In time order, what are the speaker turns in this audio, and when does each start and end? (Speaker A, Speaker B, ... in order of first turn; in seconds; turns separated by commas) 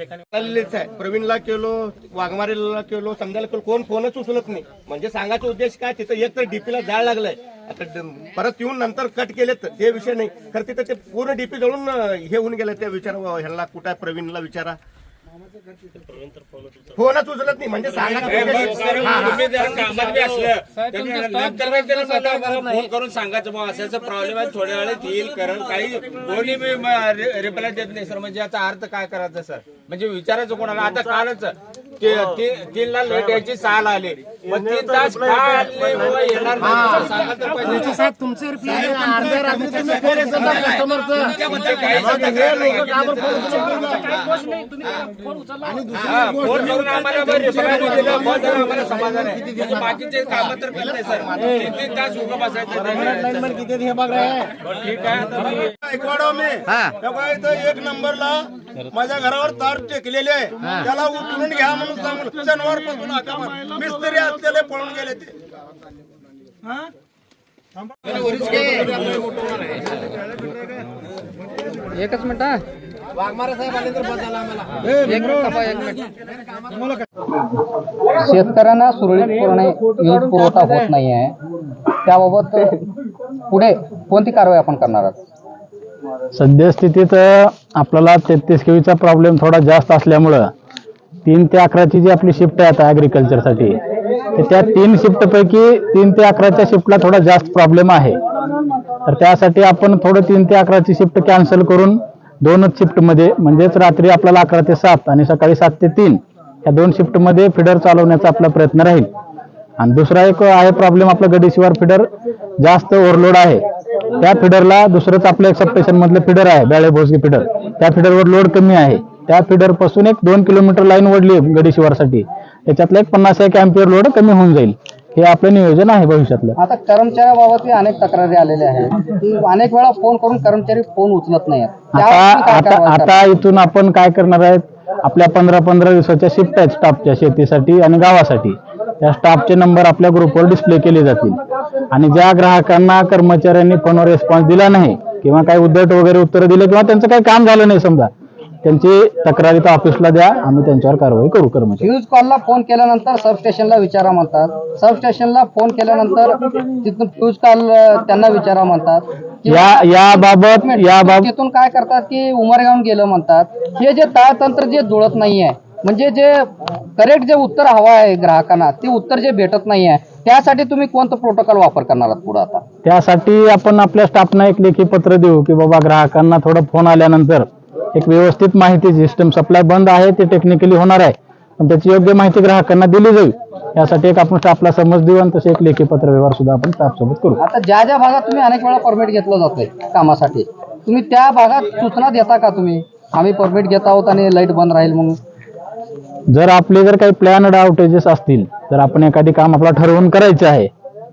Speaker A: 0.3-14.8, Speaker A: 16.9-19.8, Speaker B: 18.2-38.0, Speaker C: 21.9-22.8, Speaker A: 33.1-33.4, Speaker A: 34.4-37.2, Speaker C: 36.7-37.0, Speaker C: 37.7-41.5, Speaker A: 38.6-40.8, Speaker B: 40.1-44.3, Speaker A: 41.7-44.1, Speaker C: 42.3-43.7, Speaker C: 45.6-48.5, Speaker B: 46.0-53.6, Speaker A: 47.8-48.3, Speaker C: 51.3-51.7, Speaker C: 53.1-54.5, Speaker B: 54.6-55.7, Speaker A: 55.7-65.3, Speaker C: 68.5-68.9, Speaker D: 71.9-72.6, Speaker C: 73.3-74.5, Speaker D: 75.0-76.0, Speaker D: 78.2-81.3, Speaker D: 82.0-82.8, Speaker D: 83.5-85.2, Speaker E: 86.3-90.5, Speaker E: 91.2-93.8, Speaker E: 94.3-98.2, Speaker E: 99.0-109.1, Speaker E: 109.8-113.6, Speaker E: 114.2-126.5, Speaker D: 126.6-133.2, Speaker E: 131.9-141.4, Speaker E: 141.9-148.1, Speaker E: 148.6-151.9, Speaker D: 151.8-172.6, Speaker E: 159.5-161.3, Speaker E: 172.8-187.4, Speaker D: 187.4-195.2, Speaker E: 196.3-200.7